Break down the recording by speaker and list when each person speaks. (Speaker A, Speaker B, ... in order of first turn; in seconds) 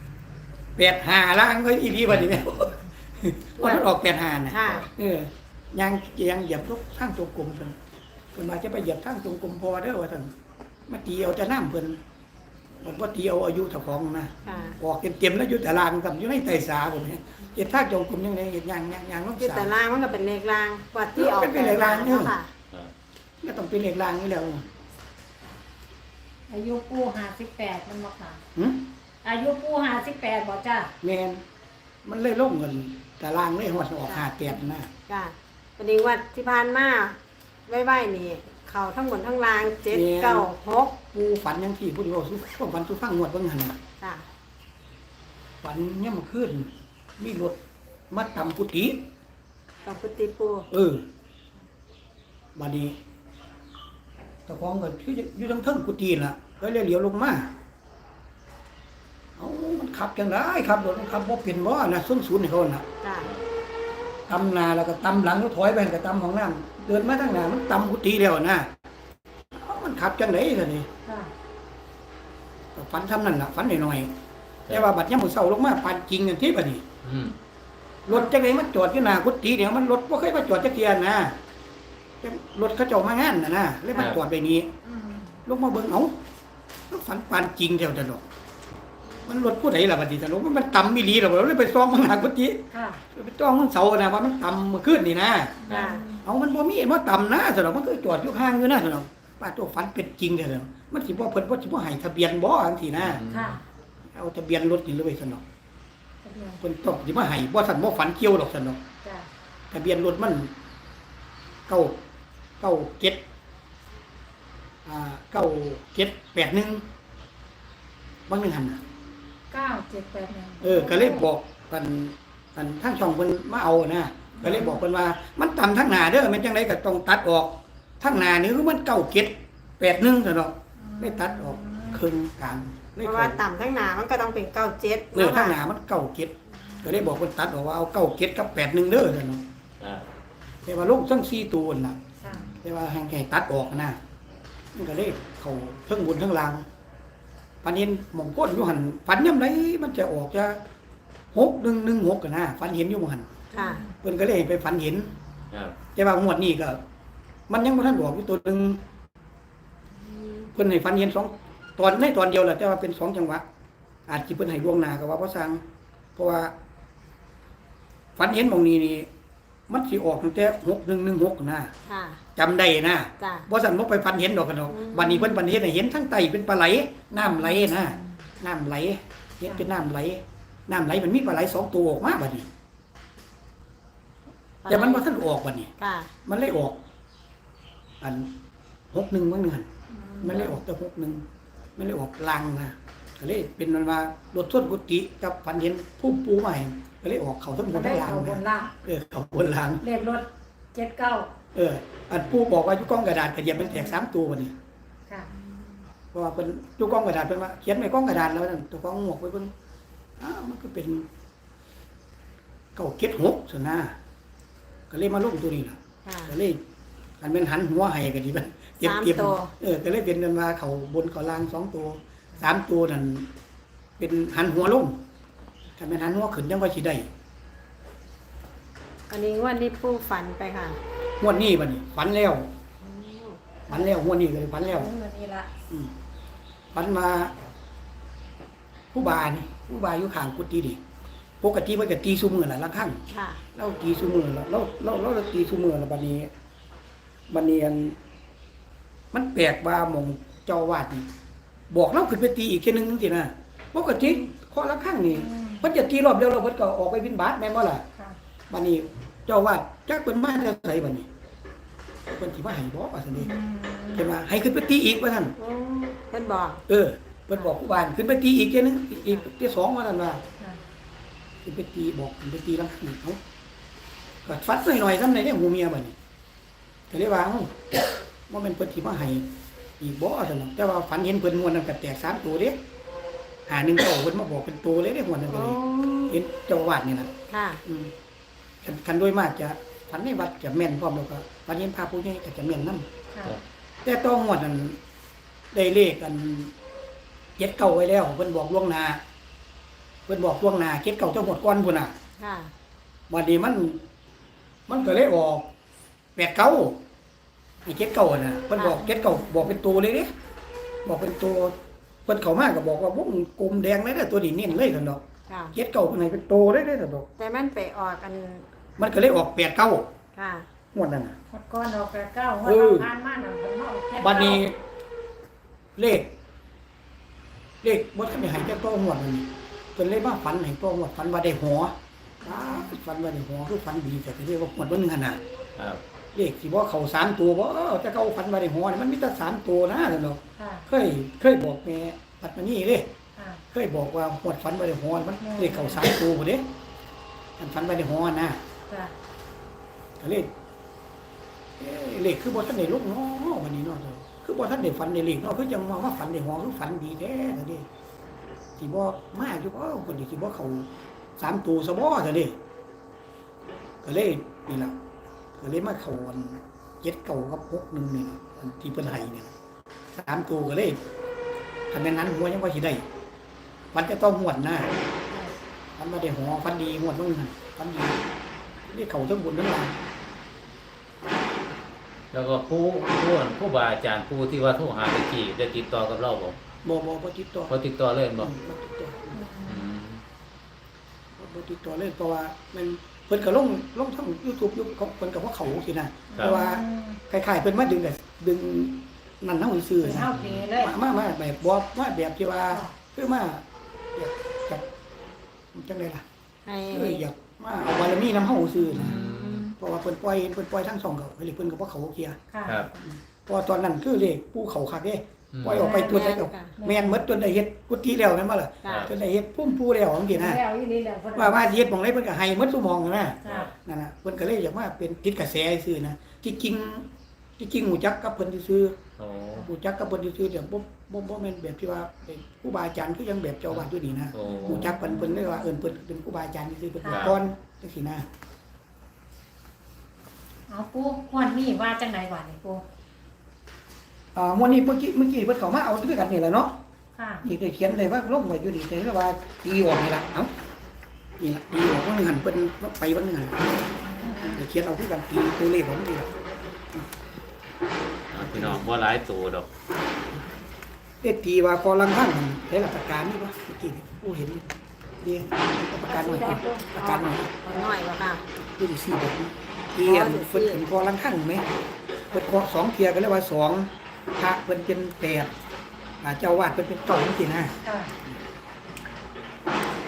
Speaker A: 0.8-7.8, 8.3-10.3, 10.9-12.0, 12.8-19.7, 21.1-22.3, 23.4-24.7, 28.5-28.9, 31.0-31.4, 32.0-34.9, 39.9-40.5, 41.0-43.8, 45.6-47.6, 48.1-49.1, 50.7-51.1, 52.5-53.0, 54.5-57.5, 59.4-62.9, 64.3-68.7, 69.5-70.9, 72.7-74.1, 74.7-76.8, 78.0-81.4, 82.2-84.7, 85.5-86.2, 86.9-88.2, 89.2-95.6, 96.2-103.2, 104.1-105.4, 106.6-108.8, 109.7-110.5, 111.7-112.0, 112.6-113.2, 114.8-116.9, 118.3-118.8, 120.6-133.4, 135.1-139.4, 140.6-142.0, 142.6-144.0, 144.7-146.6, 147.6-150.6, 151.3-153.3, 154.0-155.1, 155.9-156.8, 157.5-158.8, 160.5-163.4, 164.1-165.6, 166.2-166.5, 168.2-169.1, 169.7-171.7, 172.3-182.5, 184.7-185.7, 186.2-186.8, 188.0-188.3, 188.9-189.7, 190.2-191.2, 191.8-199.8, 201.5-204.6, 206.1-209.5, 210.2-211.1, 212.7-214.0, 214.9-216.6, 217.2-223.3, 224.0-225.0, 225.8-227.1, 231.2-232.5, 233.7-234.9, 236.7-237.4, 238.9-240.8, 241.4-243.0, 243.5-246.3, 247.3-248.0, 249.1-251.1, 251.7-257.8, 258.5-261.1, 262.1-263.3, 263.9-265.4, 266.7-270.2, 271.4-273.2, 274.2-275.9, 276.9-282.6, 283.5-287.1, 287.6-287.9, 288.6-292.9, 293.8-294.8, 295.5-296.5, 297.4-299.0, 300.1-301.9, 303.1-303.8, 304.7-305.5, 306.1-306.8, 307.6-310.1, 310.8-317.1, 318.8-319.9, 320.7-321.2, 322.4-322.9, 324.0-324.6, 325.8-326.1, 327.6-335.2, 336.1-342.9, 343.5-346.5, 347.4-348.4, 350.0-350.3, 351.6-357.7, 358.6-362.4, 363.8-364.8, 365.4-369.3, 369.9-370.8, 371.7-372.8, 373.7-374.7, 375.8-378.0, 378.7-379.8, 386.6-387.5, 388.2-389.2, 391.1-403.4, 403.9-404.6, 405.5-406.0, 406.7-409.0, 409.5-412.2, 412.8-420.4, 421.1-428.8, 429.4-438.1, 444.1-446.6, 447.2-450.3, 451.2-453.4, 454.2-456.1, 458.3-458.6, 461.0-464.5, 465.0-467.3, 468.6-471.4, 472.1-475.3, 476.0-477.6
Speaker B: 3.6-3.9, 4.5-4.8, 14.4-14.8, 19.4-22.5, 35.1-41.0, 44.0-44.2, 49.8-50.7, 63.0-63.3, 95.7-96.0, 133.0-135.6, 153.5-153.8, 160.1-160.5, 171.8-172.2, 173.2-173.5, 174.7-175.4, 184.6-185.1, 185.8-186.1, 216.0-216.3, 218.8-219.5, 229.1-230.8, 232.8-233.4, 243.1-243.4, 265.4-266.6, 285.3-286.2, 287.3-287.6, 302.2-302.5, 308.6-309.4, 315.3-315.5, 317.2-318.4, 320.1-320.5, 406.4-407.0, 415.6-416.5, 418.6-418.9, 466.8-468.2, 469.8-470.6
Speaker C: 26.5-28.4, 29.2-30.9, 71.0-71.3, 84.8-85.3, 92.7-93.0, 95.7-96.2, 103.3-103.6, 106.2-106.6, 119.5-121.2, 124.3-124.8, 130.8-132.0, 142.2-142.5, 153.6-153.9, 177.2-178.1, 189.9-190.5, 197.7-198.7, 199.8-201.3, 234.7-235.5, 255.1-255.7, 263.1-264.1, 321.3-324.4, 332.2-332.7, 340.4-340.6, 343.2-343.4, 345.2-345.8, 348.7-348.9, 389.1-389.7, 396.1-397.0, 399.8-400.7, 412.3-412.7, 415.5-417.0, 420.1-421.7, 434.2-434.7, 436.8-437.1, 440.5-442.6, 446.9-447.2, 453.8-454.4, 465.8-466.6, 477.6-477.9
Speaker D: 77.0-77.3, 103.0-103.6, 139.8-140.0, 142.2-142.6, 155.5-155.8, 382.1-386.4, 387.5-388.3, 389.5-390.0, 400.1-400.4, 408.7-409.5, 415.3-415.6, 418.6-418.9, 423.2-423.5, 429.0-429.5, 433.5-434.7, 436.9-437.2, 458.1-459.5